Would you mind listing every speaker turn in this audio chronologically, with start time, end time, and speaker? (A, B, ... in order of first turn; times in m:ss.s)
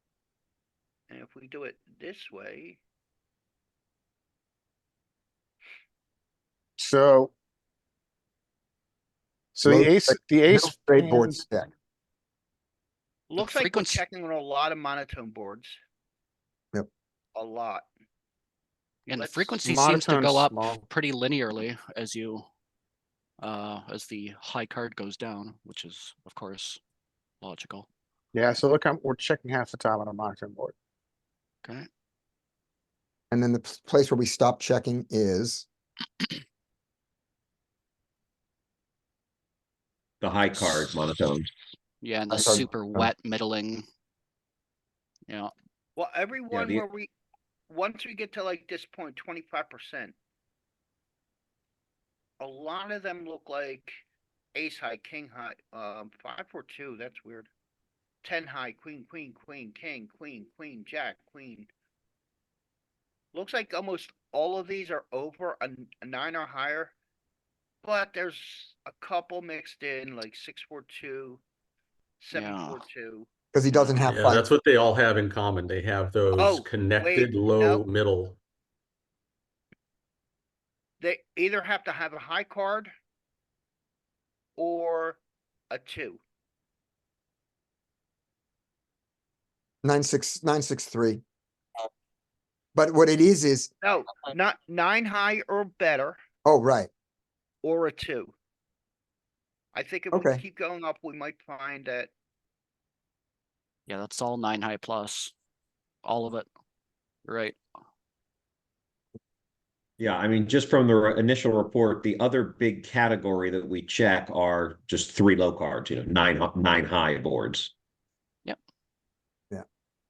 0:01.1-0:02.8 A
0:06.8-0:07.3 B
0:09.5-0:11.4 B
0:09.6-0:11.7 C
0:13.3-0:15.8 A
0:13.4-0:14.0 D
0:17.4-0:17.9 A
0:19.1-0:22.5 D
0:19.2-0:19.6 A
0:19.6-0:20.8 B
0:23.4-0:26.8 D
0:27.4-0:27.9 D
0:28.3-0:30.8 B
0:33.3-0:35.7 C
0:40.2-0:41.5 E
0:42.0-0:43.8 D
0:42.3-0:43.1 C
0:45.3-0:45.5 D
0:46.0-0:47.1 A
0:46.5-0:46.9 E
0:47.7-0:50.2 A
0:52.4-0:54.0 A
0:54.6-0:57.5 A
0:58.2-1:01.7 A
1:03.3-1:07.0 A
1:07.8-1:11.4 A
1:12.2-1:13.3 A
1:12.3-1:12.8 D
1:13.5-1:14.5 C
1:14.0-1:18.4 F
1:16.4-1:17.8 A
1:21.0-1:22.9 A
1:24.6-1:26.2 A
1:29.8-1:31.2 C
1:32.8-1:33.7 C
1:33.8-1:36.2 A
1:36.4-1:36.9 C
1:37.6-1:38.4 A
1:39.7-1:42.1 A
1:40.1-1:40.4 C
1:43.9-1:45.3 D
1:46.0-1:46.5 D
1:47.2-1:47.6 D
1:50.0-1:57.7 E